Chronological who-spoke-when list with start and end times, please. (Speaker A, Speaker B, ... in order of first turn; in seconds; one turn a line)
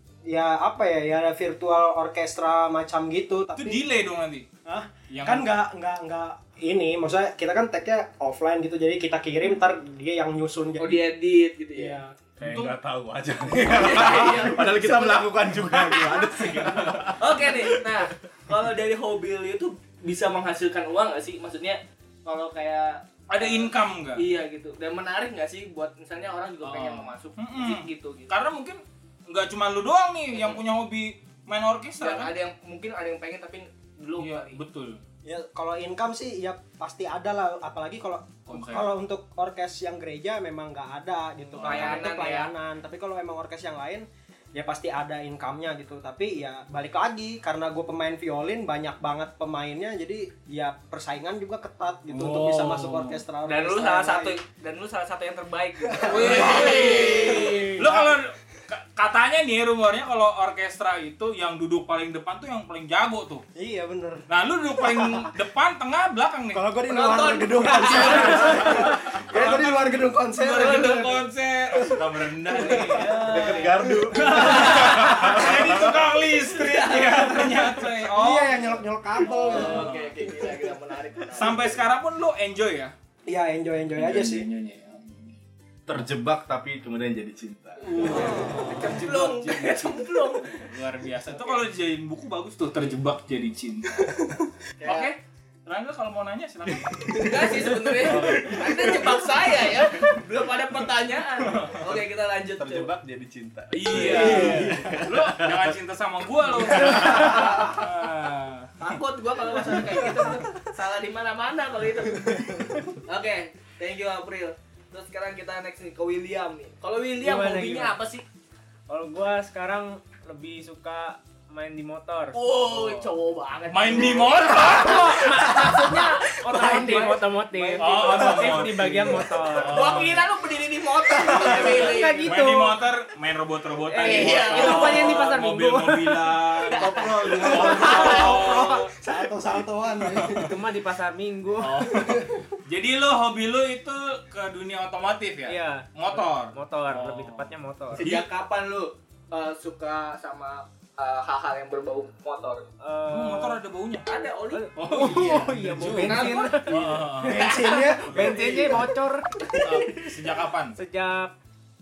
Speaker A: 0.3-3.8
Speaker B: 3.5-4.5
Speaker A: 4.7-11.0
Speaker B: 5.1-5.5
Speaker C: 10.8-12.0
Speaker A: 11.8-12.1
Speaker D: 12.4-18.0
Speaker B: 12.4-12.8
Speaker C: 13.5-16.2
Speaker C: 17.2-28.3
Speaker B: 23.3-24.2
Speaker B: 26.6-32.3
Speaker C: 30.3-30.6
Speaker C: 32.0-34.6
Speaker B: 34.2-35.0
Speaker A: 35.2-54.4
Speaker B: 38.5-38.9
Speaker B: 41.5-42.1
Speaker C: 41.6-42.5
Speaker B: 52.1-53.2
Speaker C: 53.5-57.8
Speaker A: 55.8-58.1
Speaker B: 56.0-63.4
Speaker A: 63.5-65.3
Speaker B: 64.3-66.6
Speaker A: 66.5-75.4
Speaker C: 66.9-69.0
Speaker B: 67.8-78.8
Speaker C: 73.0-73.6
Speaker D: 73.2-76.0
Speaker C: 76.5-77.9
Speaker A: 78.1-79.9
Speaker C: 79.2-81.8
Speaker B: 79.4-80.2
Speaker B: 81.3-82.9
Speaker A: 83.3-84.5
Speaker B: 84.0-85.3
Speaker D: 85.9-88.2
Speaker B: 87.8-99.1
Speaker C: 87.9-90.7
Speaker C: 91.3-91.6
Speaker C: 94.8-95.1
Speaker D: 96.7-97.0
Speaker C: 97.1-102.9
Speaker D: 98.1-98.5
Speaker B: 101.4-101.8
Speaker D: 102.6-105.7
Speaker B: 103.7-108.7
Speaker C: 103.9-104.8
Speaker D: 106.7-107.7
Speaker C: 108.8-118.2
Speaker A: 112.2-112.8
Speaker E: 117.2-118.0
Speaker E: 118.9-122.4
Speaker C: 122.3-128.8
Speaker B: 122.6-123.1
Speaker B: 123.7-125.5
Speaker E: 124.6-129.9
Speaker B: 127.8-130.3
Speaker C: 129.7-132.3
Speaker B: 131.2-138.9
Speaker E: 131.5-132.8
Speaker E: 133.9-136.4
Speaker C: 133.9-135.3
Speaker C: 136.6-138.8
Speaker E: 137.1-138.3
Speaker A: 137.2-140.5
Speaker B: 140.0-140.4
Speaker E: 140.3-141.9
Speaker B: 141.6-148.3
Speaker A: 142.0-142.4
Speaker E: 145.5-148.1
Speaker C: 147.9-152.7
Speaker E: 152.8-153.6
Speaker B: 153.1-154.1
Speaker C: 154.1-155.4
Speaker E: 154.5-159.7
Speaker B: 154.8-157.5
Speaker C: 155.9-158.4
Speaker A: 157.2-158.9
Speaker B: 158.1-158.4
Speaker B: 159.6-160.8
Speaker E: 160.8-161.3